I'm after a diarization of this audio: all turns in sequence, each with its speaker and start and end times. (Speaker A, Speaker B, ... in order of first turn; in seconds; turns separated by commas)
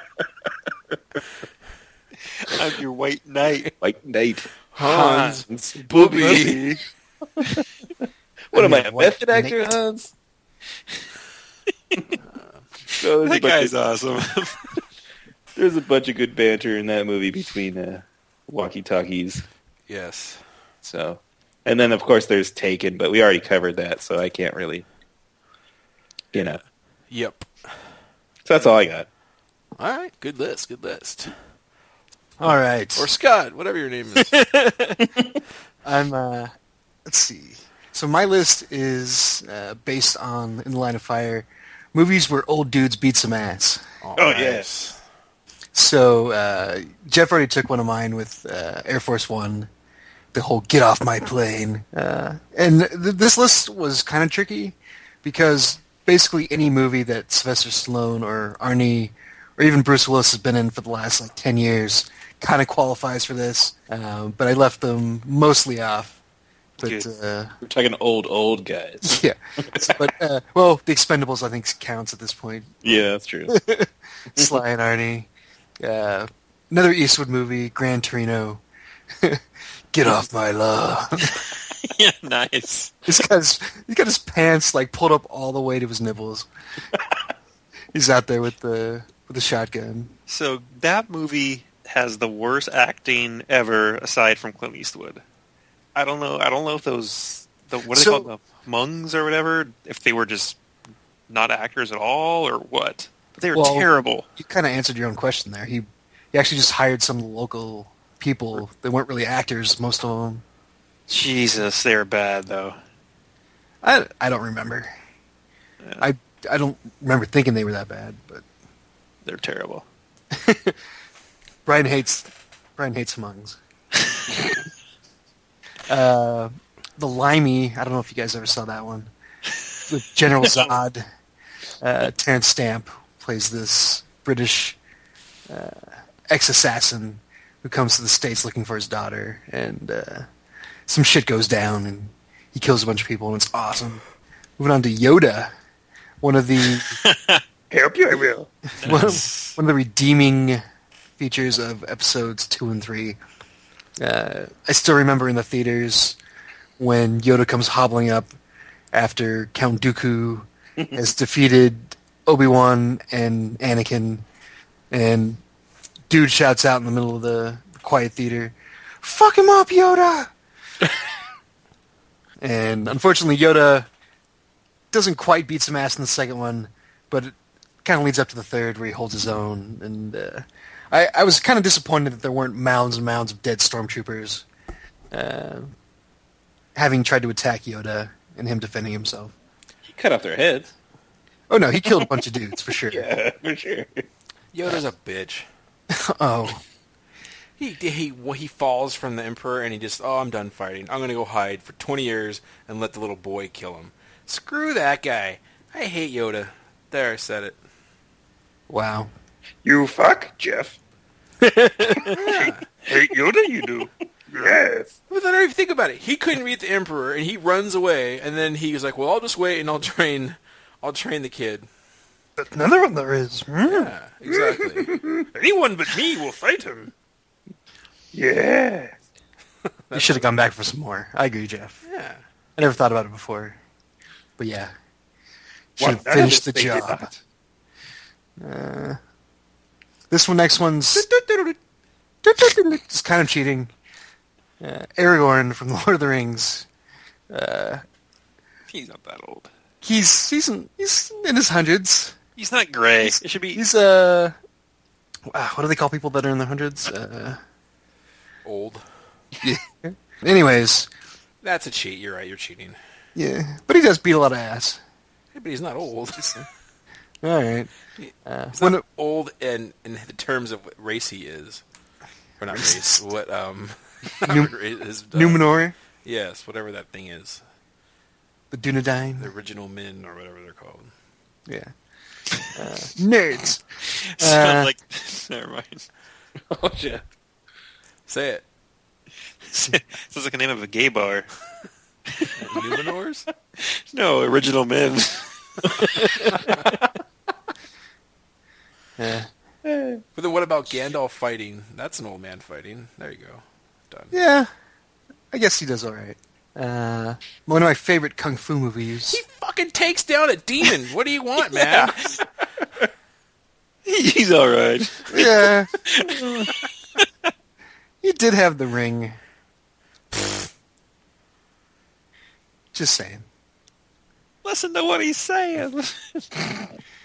Speaker A: 2.3-3.7, Speaker B: 3.7-6.6, Speaker C: 4.7-6.6, Speaker A: 6.0-6.8, Speaker B: 8.5-10.1, Speaker D: 8.5-9.7, Speaker C: 12.3-12.6, Speaker B: 13.0-13.7, Speaker A: 13.2-14.7, Speaker B: 15.6-19.4, Speaker C: 19.9-20.4, Speaker B: 20.8-24.9, Speaker B: 26.3-26.6, Speaker C: 27.1-27.5, Speaker B: 28.4-29.1, Speaker C: 29.8-31.3, Speaker D: 32.4-33.1, Speaker C: 33.0-34.4, Speaker D: 34.2-35.0, Speaker D: 35.9-36.5, Speaker D: 37.1-43.8, Speaker C: 44.0-45.0, Speaker B: 44.2-44.7, Speaker D: 45.7-49.7, Speaker D: 50.3-66.2, Speaker D: 66.8-67.5, Speaker B: 67.6-70.1, Speaker D: 69.0-72.7, Speaker B: 72.8-73.5, Speaker D: 73.5-75.3, Speaker D: 75.8-78.6, Speaker D: 79.9-81.4, Speaker A: 81.8-83.0, Speaker D: 83.1-86.5, Speaker D: 87.9-90.1, Speaker A: 90.3-95.2, Speaker A: 96.0-100.6, Speaker D: 97.9-98.3, Speaker A: 101.3-104.3, Speaker D: 103.5-110.4, Speaker A: 111.1-112.8, Speaker D: 113.8-114.9, Speaker D: 116.0-118.4, Speaker A: 119.2-119.9, Speaker D: 120.3-120.8, Speaker D: 121.7-123.6, Speaker D: 125.9-129.1, Speaker D: 129.9-131.1, Speaker D: 131.8-134.8, Speaker D: 135.5-140.3, Speaker D: 140.9-144.0, Speaker D: 144.6-145.5, Speaker D: 146.2-147.0, Speaker A: 146.9-147.4, Speaker B: 147.7-148.5, Speaker A: 148.8-149.6, Speaker D: 148.8-150.6, Speaker D: 151.2-153.2, Speaker D: 154.0-156.2, Speaker D: 156.8-158.3, Speaker D: 158.9-164.2, Speaker D: 164.9-165.4, Speaker D: 166.1-170.3, Speaker D: 172.4-173.9, Speaker D: 174.9-184.5, Speaker D: 185.1-185.7, Speaker D: 186.8-189.3, Speaker B: 189.9-190.7, Speaker D: 191.5-193.1, Speaker B: 192.9-194.1, Speaker C: 194.5-195.5, Speaker D: 195.9-196.6, Speaker C: 197.6-207.6, Speaker D: 208.7-209.1, Speaker B: 209.6-210.8, Speaker D: 211.4-212.2, Speaker C: 212.1-212.7, Speaker A: 212.2-214.6, Speaker B: 214.3-214.9, Speaker C: 215.1-221.7, Speaker D: 222.4-223.9, Speaker C: 223.7-225.0, Speaker A: 225.3-226.9, Speaker B: 228.1-228.9, Speaker C: 229.9-230.3, Speaker D: 229.9-231.8, Speaker C: 231.9-232.2, Speaker D: 232.6-233.6, Speaker D: 234.4-234.7, Speaker D: 235.8-237.1, Speaker B: 235.8-237.1, Speaker D: 238.4-239.0, Speaker D: 240.1-241.1, Speaker B: 241.2-241.5, Speaker D: 242.2-243.7, Speaker D: 244.6-246.7, Speaker D: 247.3-247.8, Speaker A: 248.7-249.5, Speaker D: 249.8-252.2, Speaker A: 252.4-253.6, Speaker D: 253.0-254.3, Speaker D: 255.3-257.4, Speaker C: 258.4-258.8, Speaker D: 259.4-260.9, Speaker C: 261.4-262.8, Speaker D: 263.2-264.8, Speaker C: 265.3-266.5, Speaker D: 266.2-266.5, Speaker D: 267.2-267.7, Speaker C: 268.0-271.6, Speaker D: 268.2-268.8, Speaker C: 272.4-275.4, Speaker D: 272.5-273.0, Speaker D: 274.2-274.5, Speaker D: 275.1-275.8, Speaker C: 276.0-277.4, Speaker D: 278.5-279.3, Speaker C: 279.2-280.9, Speaker D: 281.5-281.7, Speaker D: 282.6-283.6, Speaker A: 284.0-285.8, Speaker D: 284.2-284.7, Speaker B: 286.5-287.0, Speaker C: 288.1-288.4, Speaker A: 289.5-291.3, Speaker C: 292.4-293.3, Speaker A: 293.6-296.6, Speaker D: 299.0-299.3, Speaker B: 299.6-300.0, Speaker C: 300.2-304.1, Speaker D: 304.1-304.5, Speaker D: 305.3-309.2, Speaker C: 309.1-312.2, Speaker A: 311.5-312.2, Speaker A: 313.9-317.1, Speaker D: 315.1-315.7, Speaker D: 318.0-319.2, Speaker D: 322.7-323.3, Speaker A: 324.4-326.5